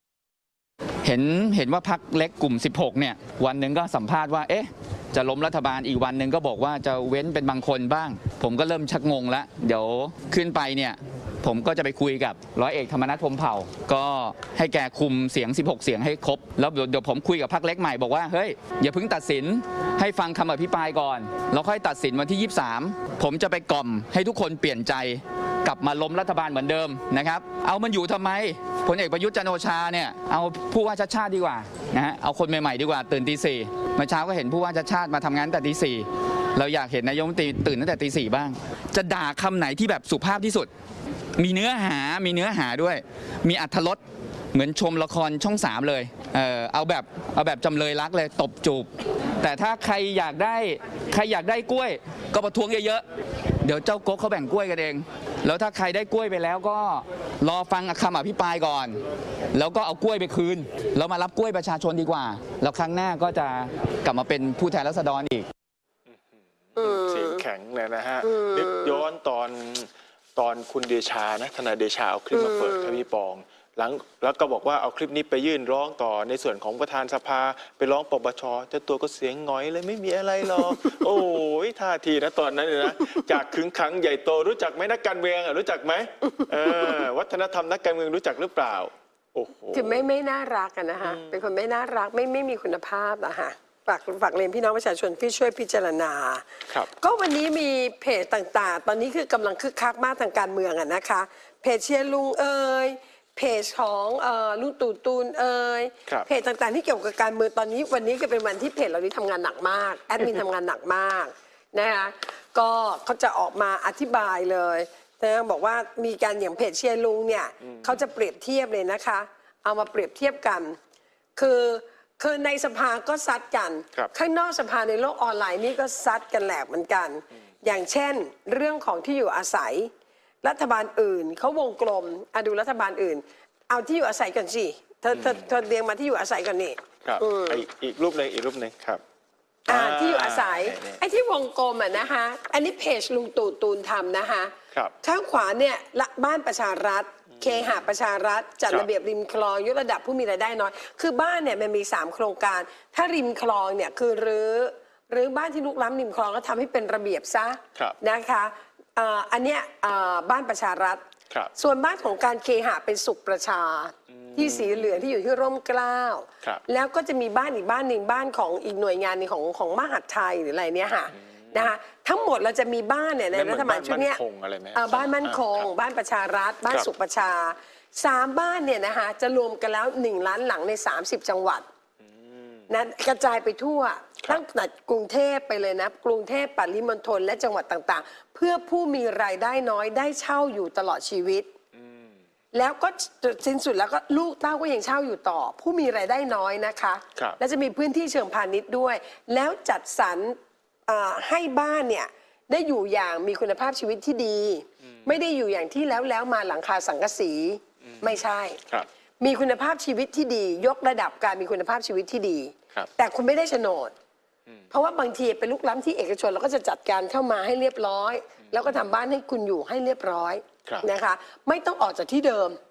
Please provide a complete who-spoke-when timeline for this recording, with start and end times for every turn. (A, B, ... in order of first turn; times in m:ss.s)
0:01.0-0:40.7 A
0:41.4-0:44.0 A
0:44.5-0:48.9 A
0:49.4-0:53.0 A
0:53.6-0:59.0 A
0:59.5-1:05.5 A
1:06.7-1:30.0 B
1:06.8-1:07.4 C
1:08.2-1:09.0 C
1:12.3-1:13.0 C
1:26.6-1:27.0 C
1:29.7-2:00.8 C
1:31.0-1:31.3 B
1:57.6-1:58.0 B
2:01.4-2:09.9 C
2:10.4-2:17.6 C
2:15.1-2:15.4 B
2:17.0-2:19.0 B
2:19.7-2:21.0 B
2:19.7-2:41.0 C
2:41.5-2:54.2 C
2:44.1-2:45.0 B
2:51.2-2:51.7 B
2:53.3-2:55.7 B
2:54.7-3:01.6 C
3:02.0-3:02.6 B
3:02.7-3:11.5 C
3:11.7-3:12.1 B
3:12.5-3:28.6 C
3:24.8-3:25.1 B
3:27.8-3:28.9 B
3:29.2-3:33.9 C
3:34.7-3:42.6 C
3:38.5-3:38.8 B